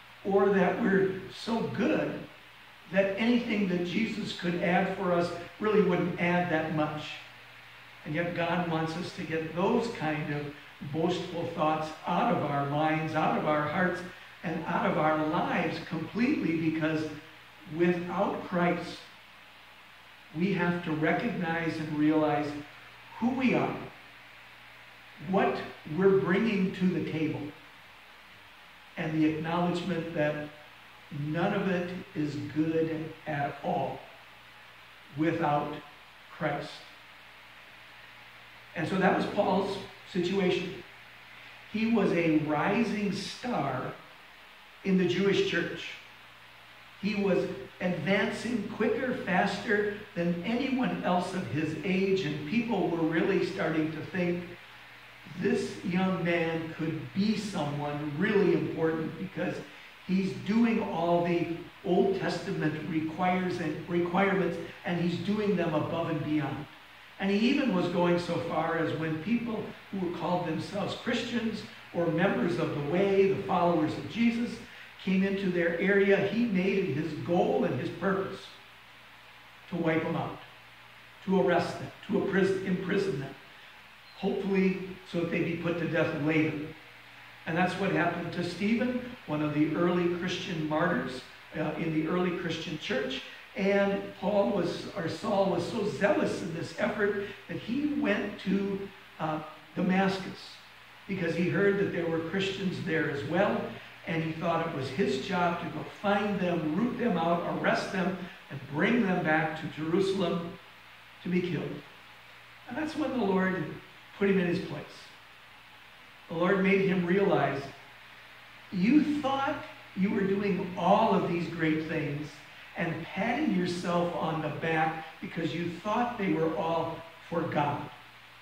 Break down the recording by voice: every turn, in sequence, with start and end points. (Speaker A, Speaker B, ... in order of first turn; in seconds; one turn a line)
Speaker A: 0.2-2.2
Speaker A: 2.8-7.2
Speaker A: 8.0-17.1
Speaker A: 17.6-19.1
Speaker A: 20.3-23.9
Speaker A: 25.2-27.5
Speaker A: 29.0-30.5
Speaker A: 31.1-34.1
Speaker A: 35.1-36.9
Speaker A: 38.7-40.8
Speaker A: 41.7-44.0
Speaker A: 44.8-46.0
Speaker A: 47.0-54.5
Speaker A: 55.2-78.5
Speaker A: 79.7-80.5
Speaker A: 81.2-83.4
Speaker A: 84.1-86.7
Speaker A: 87.5-110.6
Speaker A: 111.2-111.8
Speaker A: 112.7-115.1
Speaker A: 116.3-117.7
Speaker A: 118.7-128.0